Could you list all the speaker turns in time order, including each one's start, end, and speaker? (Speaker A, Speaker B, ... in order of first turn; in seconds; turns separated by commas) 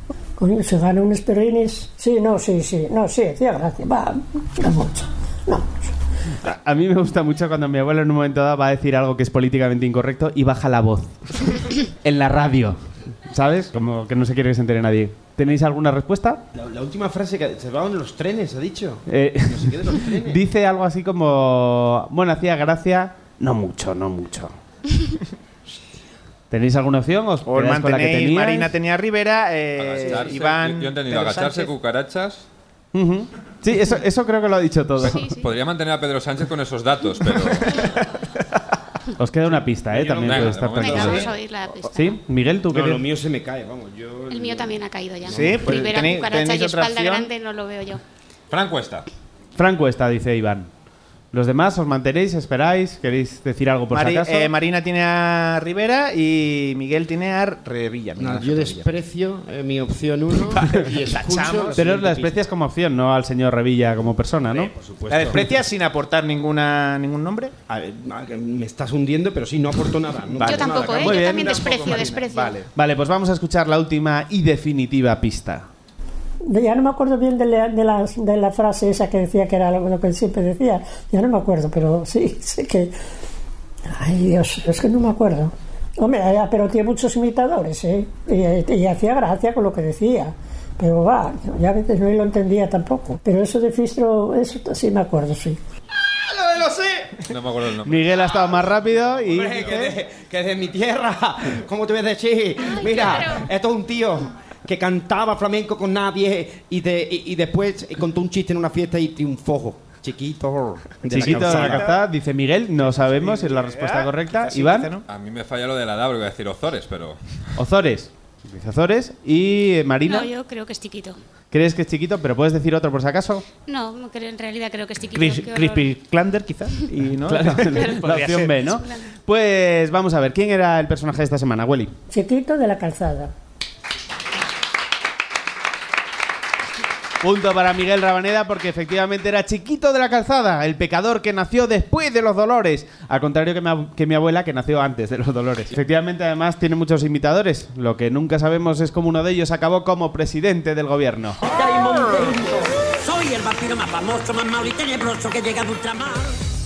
Speaker A: 0.4-5.9, Speaker B: 6.4-16.4, Speaker C: 16.5-20.4, Speaker B: 19.1-24.5, Speaker B: 26.5-28.7, Speaker D: 27.4-31.7, Speaker E: 29.8-32.5, Speaker C: 30.0-30.4, Speaker B: 32.9-35.3, Speaker E: 35.0-37.9, Speaker F: 35.0-35.5, Speaker B: 39.2-41.3, Speaker C: 39.9-41.2, Speaker E: 40.2-41.3, Speaker F: 40.8-42.1, Speaker B: 41.9-43.0, Speaker C: 42.7-45.7, Speaker F: 44.3-48.0, Speaker D: 45.2-47.3, Speaker E: 48.5-49.1, Speaker B: 49.5-50.7, Speaker B: 51.3-54.5, Speaker D: 53.9-58.9, Speaker C: 58.2-62.4, Speaker D: 60.5-61.8, Speaker B: 61.7-64.7, Speaker C: 64.5-65.5, Speaker D: 65.1-67.5, Speaker C: 67.7-71.9, Speaker D: 70.4-72.6, Speaker F: 70.4-72.6, Speaker B: 71.0-72.0, Speaker B: 72.7-75.7, Speaker A: 76.4-82.9, Speaker A: 83.9-95.6, Speaker C: 96.1-97.2, Speaker E: 97.3-98.0, Speaker B: 97.8-99.9, Speaker E: 99.2-99.7, Speaker C: 99.2-111.9, Speaker F: 102.9-103.4, Speaker B: 111.1-114.9, Speaker D: 111.2-111.9, Speaker D: 112.9-115.0, Speaker E: 115.1-117.2, Speaker B: 117.6-120.3, Speaker F: 120.0-121.2, Speaker B: 121.5-123.4, Speaker F: 123.6-125.9, Speaker D: 125.1-128.6, Speaker B: 127.3-131.9, Speaker F: 127.7-128.0, Speaker F: 128.6-129.0, Speaker A: 132.1-133.3, Speaker B: 137.2-151.4, Speaker G: 151.4-156.3